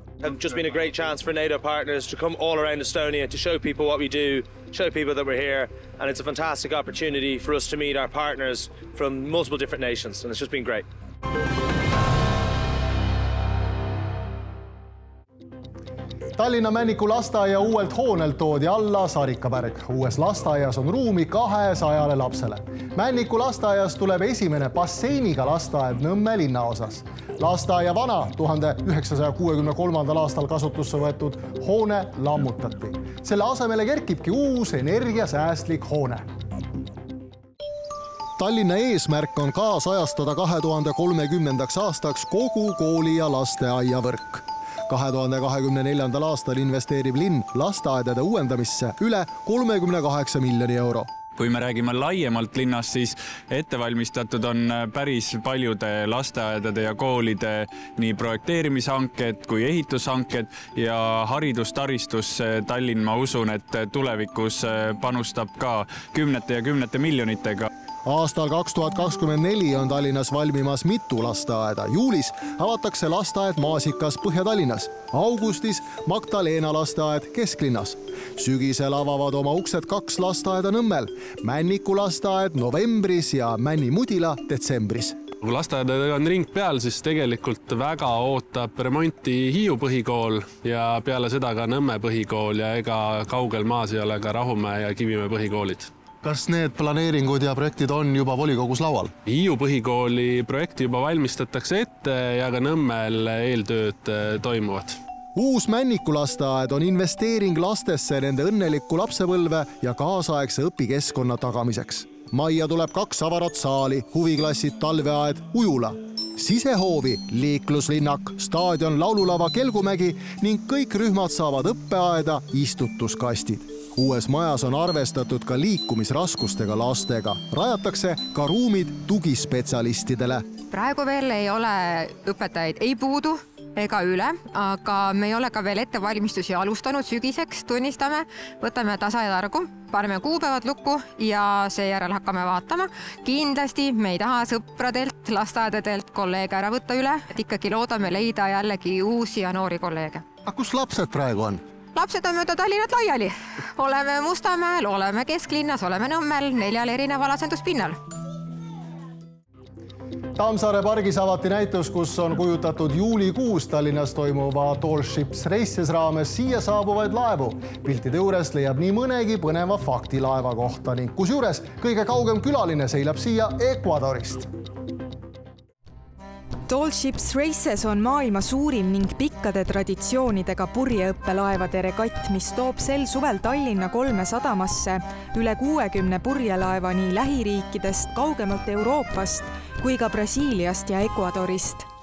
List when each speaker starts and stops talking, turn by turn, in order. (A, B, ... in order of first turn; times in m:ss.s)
0:00.2-0:10.8 A
0:16.4-0:36.2 B
0:38.4-0:51.1 B
0:51.4-1:07.7 C
1:08.0-1:25.2 B
1:25.4-1:35.9 D
1:36.2-1:39.1 B
1:39.3-1:44.9 D
1:45.3-2:10.5 B
2:10.7-2:30.2 E
2:30.4-2:31.6 B
2:31.9-2:38.0 E
2:40.4-2:54.5 B
2:56.7-3:11.9 F